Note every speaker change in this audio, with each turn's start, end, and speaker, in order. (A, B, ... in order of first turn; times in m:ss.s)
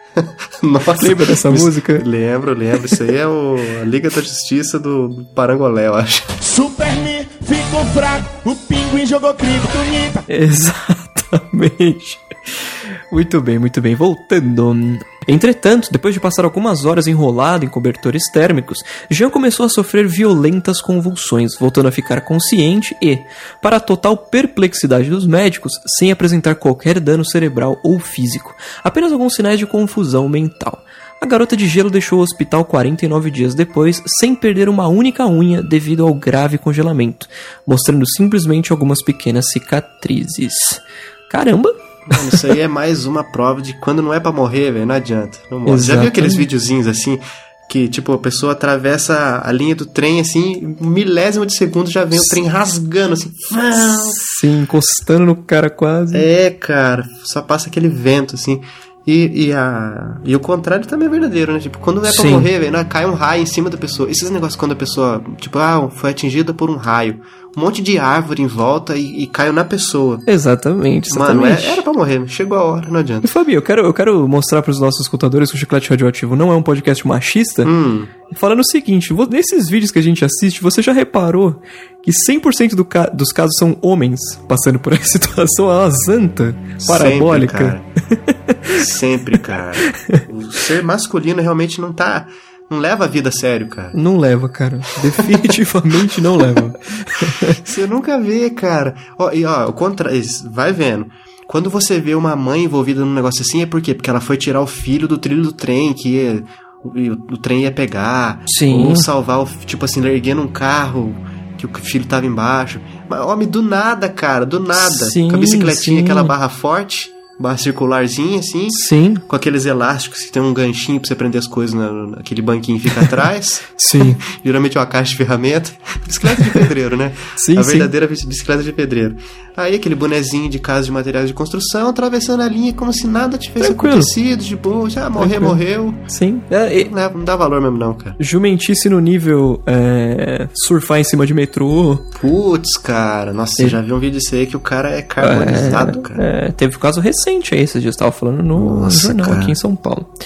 0:00.2-0:06.4 A
0:01.0-0:02.0 B
0:06.4-0:10.2 C
0:10.3-0:42.4 B
0:42.1-0:54.2 A
0:45.6-0:46.5 B
0:53.9-0:56.3 B
0:56.1-1:10.2 A
1:02.0-1:02.5 B
1:10.3-1:11.8 B
1:11.1-1:13.3 A
1:13.2-1:17.7 B
1:17.6-1:18.1 A
1:18.3-1:28.8 B
1:26.8-1:27.9 A
1:28.7-1:34.0 A
1:33.9-1:37.6 B
1:35.1-1:35.5 A
1:37.3-2:16.0 A
1:48.5-1:49.1 B
1:54.7-1:56.3 B
1:58.7-1:59.2 B
2:03.8-2:04.2 B
2:07.4-2:07.9 B
2:13.6-2:14.1 B
2:15.2-2:16.9 B
2:16.7-2:18.2 A
2:18.2-2:22.1 B
2:22.1-2:26.2 A
2:25.2-2:30.1 B
2:28.6-2:29.6 A